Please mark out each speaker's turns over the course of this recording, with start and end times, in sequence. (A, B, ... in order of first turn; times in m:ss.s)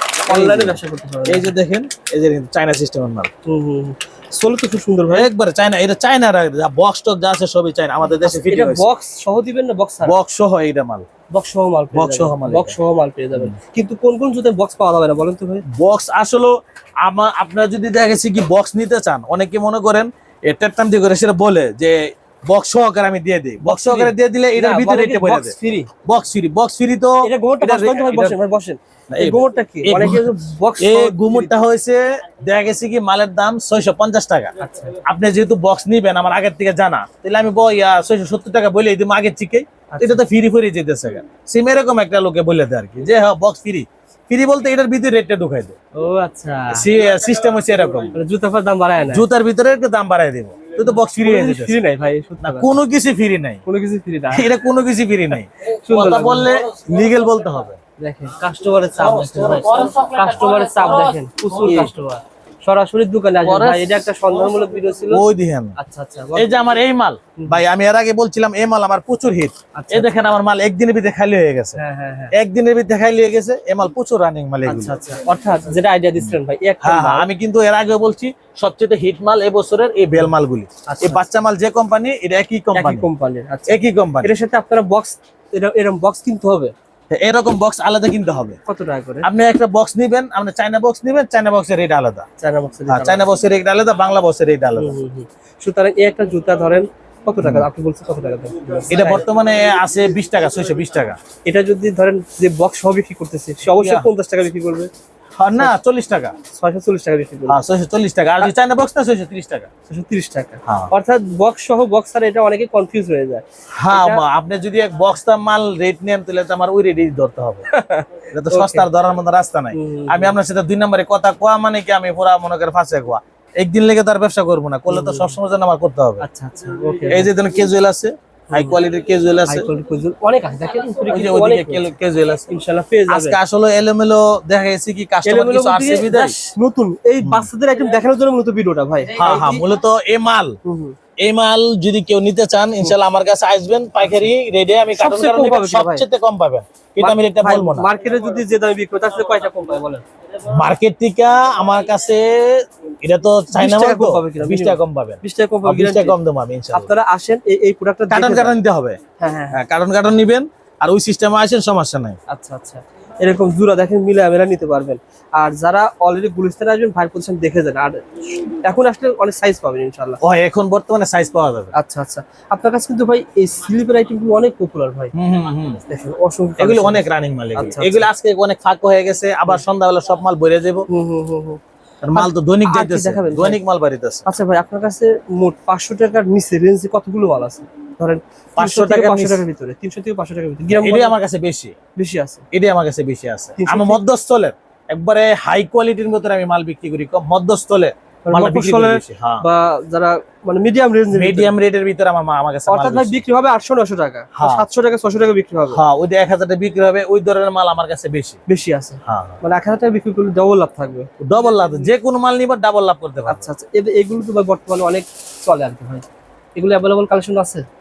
0:00.2-0:01.5 A
0:00.3-0:03.3 B
0:03.4-0:05.3 A
0:05.1-0:08.9 B
0:08.2-0:10.1 A
0:10.0-0:11.1 B
0:11.3-0:15.6 A
0:11.9-0:12.8 B
0:15.7-0:25.5 B
0:23.6-0:25.9 A
0:26.0-0:28.4 B
0:27.2-0:31.5 A
0:29.1-0:45.8 B
0:34.6-0:35.0 A
0:39.9-0:40.2 A
0:46.0-0:46.9 A
0:46.7-0:48.1 B
0:48.1-0:49.2 A
0:49.1-0:51.8 B
0:50.8-0:52.8 A
0:52.4-0:53.6 B
0:53.6-0:54.5 A
0:54.3-0:57.8 B
0:55.6-0:56.6 A
0:58.0-1:05.2 A
0:59.2-1:01.9 B
1:03.4-1:03.9 B
1:05.1-1:05.7 B
1:05.8-1:06.5 A
1:06.3-1:11.8 B
1:09.7-1:10.1 A
1:11.8-1:12.3 A
1:12.3-1:15.0 B
1:14.6-1:17.3 A
1:16.8-1:23.1 B
1:20.9-1:21.2 A
1:22.7-1:26.7 A
1:23.7-1:24.3 B
1:27.1-1:28.6 B
1:28.6-1:29.3 A
1:29.2-1:32.2 B
1:32.4-1:33.3 A
1:32.9-1:35.0 B
1:34.8-1:39.2 A
1:38.9-1:41.2 B
1:41.4-1:44.9 A
1:43.6-1:44.1 B
1:45.4-1:46.3 B
1:46.5-1:47.6 A
1:47.5-1:49.7 B
1:49.9-1:54.2 A
1:53.8-1:57.7 B
1:57.7-1:58.8 A
1:58.3-2:06.2 B
1:59.7-2:00.3 A
2:04.9-2:05.4 A
2:06.2-2:07.3 A
2:07.1-2:09.7 B
2:08.5-2:08.8 A
2:09.5-2:11.9 A
2:11.0-2:12.5 B
2:12.5-2:13.4 A
2:13.1-2:16.3 B
2:15.2-2:19.6 A
2:17.2-2:17.5 B
2:19.1-2:20.6 B
2:20.6-2:21.0 A
2:21.2-2:27.9 B
2:25.0-2:26.0 A
2:27.0-2:30.0 A
2:30.4-2:36.9 B
2:33.5-2:36.2 A
2:36.7-2:38.6 A
2:38.1-2:39.0 B
2:39.2-2:39.6 A
2:39.5-2:42.2 B
2:42.3-2:50.2 A
2:50.2-2:51.7 B
2:51.7-2:55.1 A
2:55.1-2:55.8 B
2:55.8-2:58.1 A
2:56.6-3:00.8 B
3:00.9-3:01.6 A
3:02.0-3:04.2 B
3:02.1-3:03.6 A
3:04.2-3:11.1 A
3:08.6-3:09.4 B
3:10.7-3:11.7 B
3:11.9-3:12.4 A
3:12.5-3:19.4 B
3:13.6-3:14.0 A
3:18.3-3:21.5 A
3:21.1-3:23.2 B
3:22.7-3:25.8 A
3:24.3-3:24.6 B
3:25.7-3:28.4 B
3:28.5-3:31.1 A
3:29.0-3:29.4 B
3:31.2-3:33.5 B
3:33.3-3:37.6 A